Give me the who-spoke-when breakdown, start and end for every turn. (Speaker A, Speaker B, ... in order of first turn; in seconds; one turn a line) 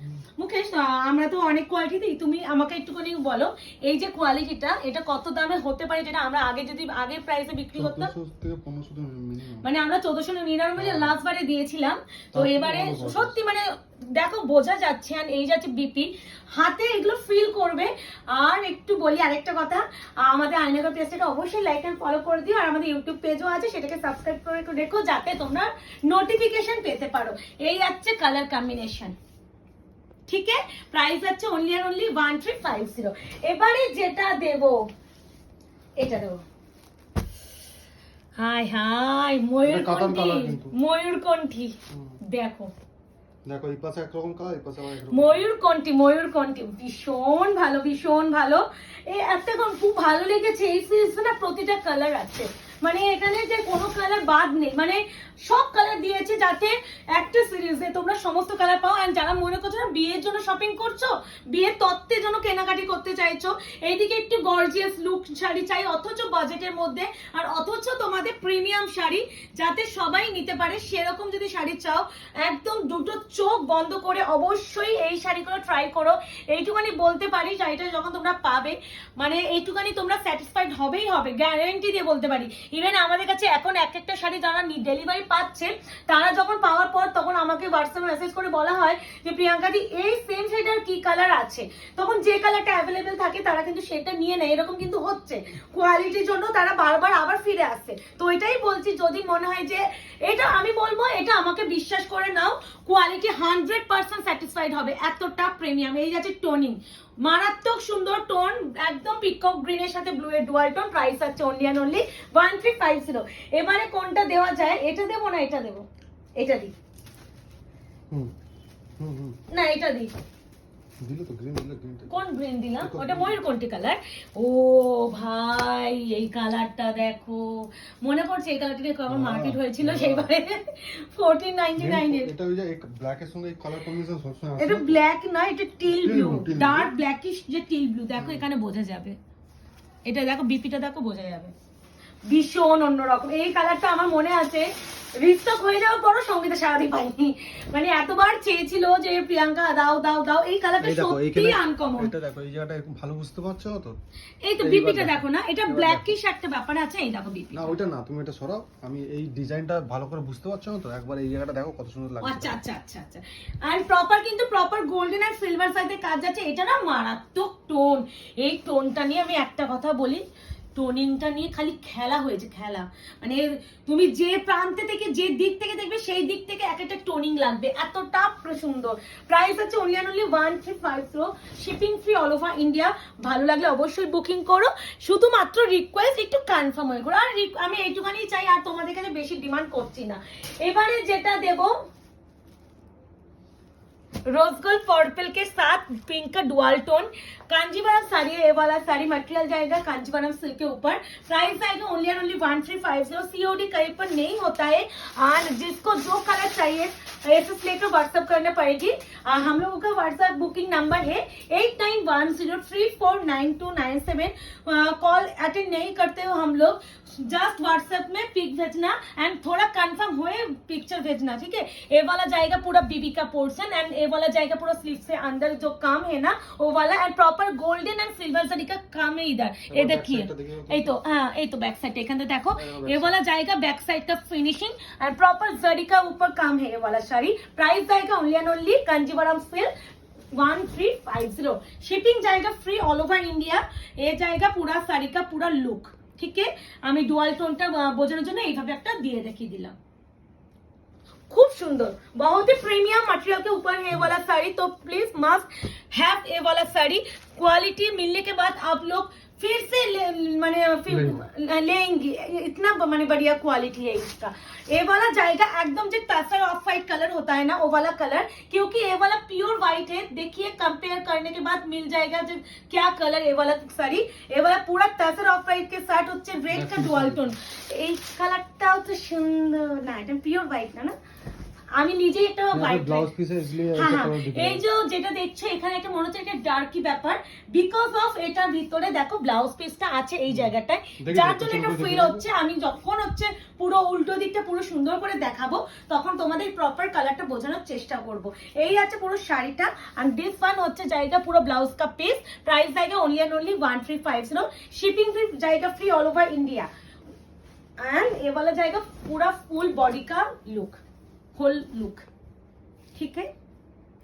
Speaker A: 0.4-8.1
Speaker B: 7.8-9.7
Speaker A: 9.6-29.2
Speaker B: 10.8-11.2
Speaker B: 12.3-13.3
Speaker A: 30.3-34.9
Speaker A: 36.0-36.4
Speaker A: 38.4-42.7
Speaker B: 39.6-40.8
Speaker B: 41.9-42.2
Speaker B: 43.5-45.5
Speaker A: 45.1-115.9
Speaker A: 116.4-116.7
Speaker B: 119.0-119.4
Speaker A: 119.5-120.1
Speaker B: 121.0-122.2
Speaker A: 122.1-132.3
Speaker B: 122.8-123.4
Speaker B: 129.1-130.3
Speaker B: 131.8-135.0
Speaker A: 134.6-139.2
Speaker B: 135.9-136.9
Speaker B: 138.2-138.5
Speaker A: 140.1-141.5
Speaker A: 142.3-152.1
Speaker B: 150.8-154.0
Speaker A: 154.4-157.7
Speaker B: 154.6-156.1
Speaker B: 157.5-162.6
Speaker A: 162.2-170.2
Speaker A: 170.8-191.8
Speaker A: 194.3-239.7
Speaker B: 229.7-231.0
Speaker B: 232.6-233.1
Speaker A: 240.3-249.8
Speaker A: 251.3-280.9
Speaker B: 260.9-261.2
Speaker B: 276.5-277.3
Speaker A: 281.8-283.1
Speaker B: 282.5-284.6
Speaker A: 283.8-306.7
Speaker B: 291.0-292.2
Speaker A: 307.8-310.8
Speaker A: 311.4-312.1
Speaker A: 312.9-313.3